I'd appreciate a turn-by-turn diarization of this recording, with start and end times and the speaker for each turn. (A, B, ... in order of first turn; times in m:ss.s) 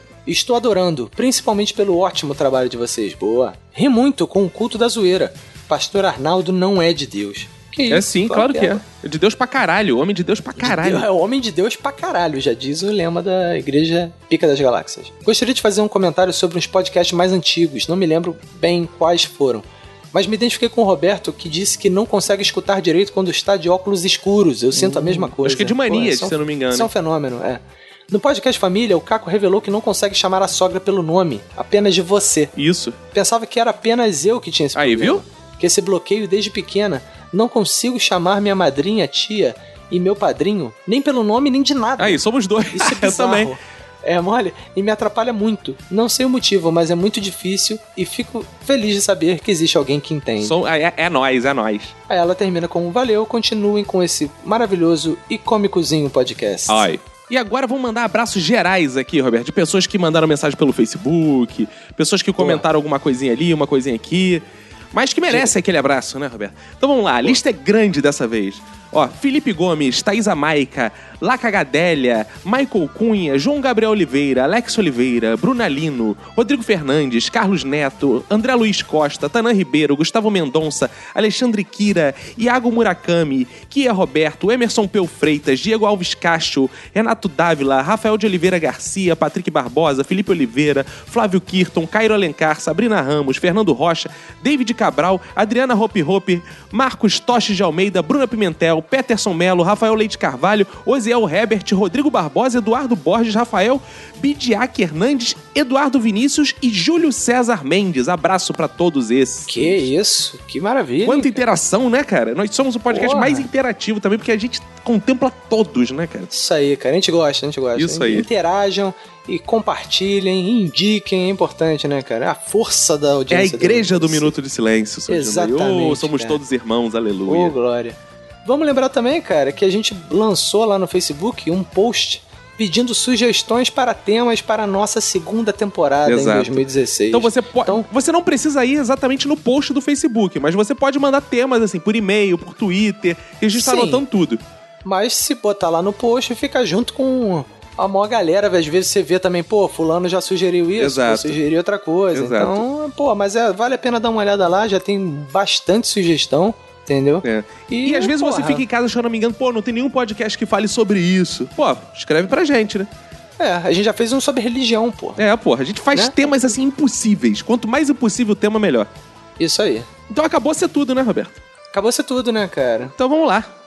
0:00.3-0:08.8 A
0:07.9-0:11.0 B
0:10.6-0:32.5 A
0:24.7-0:26.9 B
0:32.6-0:33.0 B
0:33.1-0:50.5 A
0:34.8-0:35.2 B
0:42.0-0:43.5 B
0:50.4-0:51.9 B
0:52.1-0:56.8 A
0:56.7-1:49.9 B
1:02.4-1:02.6 A
1:05.3-1:05.5 A
1:49.4-1:51.4 A
1:51.0-1:56.3 B
1:52.9-1:53.5 A
1:56.3-2:04.4 A
1:57.7-1:58.3 B
2:03.3-2:07.6 B
2:05.1-2:06.4 A
2:07.3-2:17.8 A
2:16.0-2:24.4 B
2:23.6-2:24.0 A
2:24.8-2:38.6 A
2:30.8-2:31.4 B
2:32.1-2:32.6 B
2:37.2-2:42.9 B
2:43.4-2:45.2 A
2:45.2-2:48.9 B
2:45.9-2:46.4 A
2:49.4-2:49.9 A
2:50.1-2:51.4 B
2:51.7-2:52.9 A
2:53.0-2:53.5 B